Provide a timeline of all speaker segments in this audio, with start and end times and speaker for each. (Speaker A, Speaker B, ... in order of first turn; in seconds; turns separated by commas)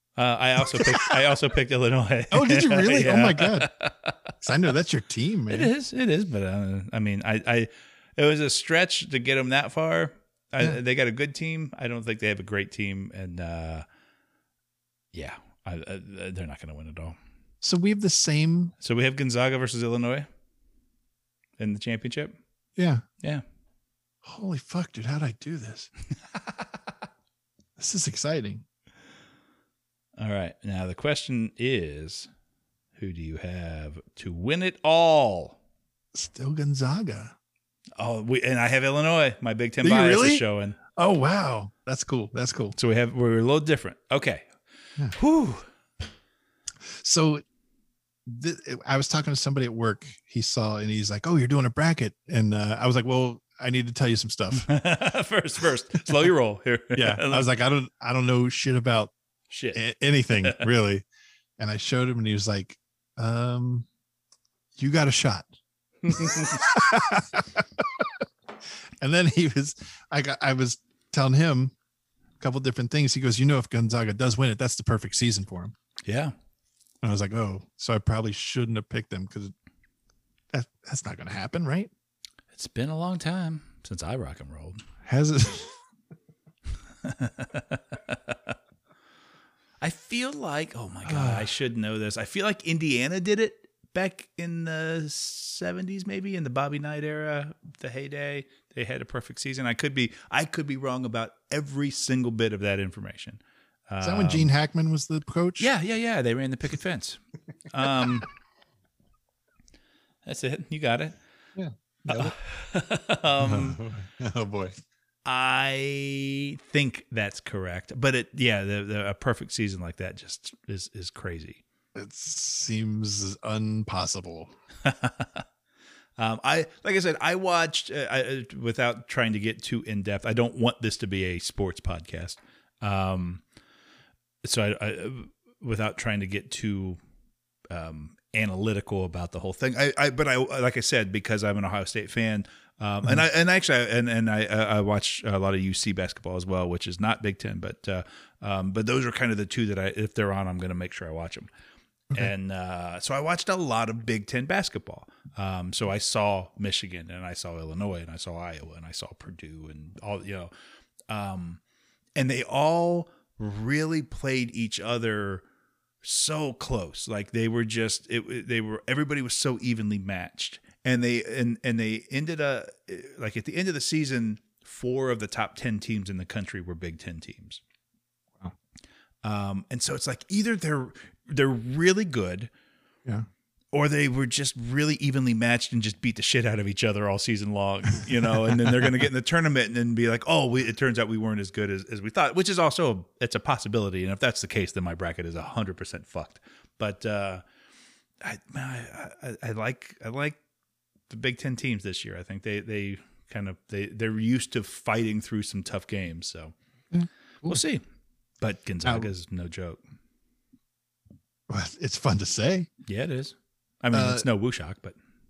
Speaker A: 0.2-4.5, Speaker B: 0.7-1.1, Speaker B: 2.3-3.7, Speaker B: 4.4-5.7, Speaker A: 5.5-13.8, Speaker A: 15.1-17.2, Speaker B: 17.6-18.7, Speaker A: 18.8-20.3, Speaker A: 21.6-22.4, Speaker B: 22.8-23.0, Speaker B: 24.2-25.9, Speaker B: 27.8-28.6, Speaker A: 30.2-32.3, Speaker A: 33.0-35.6, Speaker B: 36.1-37.3, Speaker A: 38.0-40.8, Speaker B: 39.8-40.4, Speaker B: 41.0-42.8, Speaker A: 42.8-44.4, Speaker A: 45.1-45.6, Speaker B: 46.8-47.4, Speaker B: 48.3-54.7, Speaker A: 54.6-57.5, Speaker B: 56.9-59.1, Speaker A: 59.5-59.8, Speaker B: 59.7-61.0, Speaker A: 60.4-60.6, Speaker B: 61.6-63.9, Speaker B: 64.8-65.5, Speaker A: 66.1-66.6, Speaker B: 66.1-67.6, Speaker B: 69.0-71.7, Speaker B: 72.4-75.8, Speaker A: 76.0-76.3, Speaker B: 77.0-79.5, Speaker B: 80.5-81.9, Speaker A: 82.5-84.8, Speaker B: 85.0-85.8, Speaker A: 87.0-88.4, Speaker A: 89.8-104.5, Speaker B: 91.0-91.5, Speaker B: 104.0-105.7, Speaker A: 105.6-107.2, Speaker A: 107.7-108.3, Speaker A: 110.2-111.2, Speaker B: 111.6-112.3, Speaker A: 112.1-113.8, Speaker B: 113.4-114.8, Speaker A: 115.2-121.6, Speaker B: 122.0-124.5, Speaker A: 124.8-125.4, Speaker A: 126.2-133.4, Speaker A: 134.4-137.0, Speaker A: 137.7-151.5, Speaker A: 152.1-160.5, Speaker A: 161.1-161.6, Speaker A: 162.2-165.4, Speaker A: 166.0-177.6, Speaker A: 179.2-182.5, Speaker A: 183.7-197.4, Speaker A: 198.2-200.4, Speaker A: 201.1-206.5, Speaker B: 206.9-207.6, Speaker A: 207.5-207.8, Speaker A: 208.4-209.8, Speaker B: 208.8-209.1, Speaker B: 211.5-212.7, Speaker A: 212.9-215.0, Speaker B: 213.9-214.3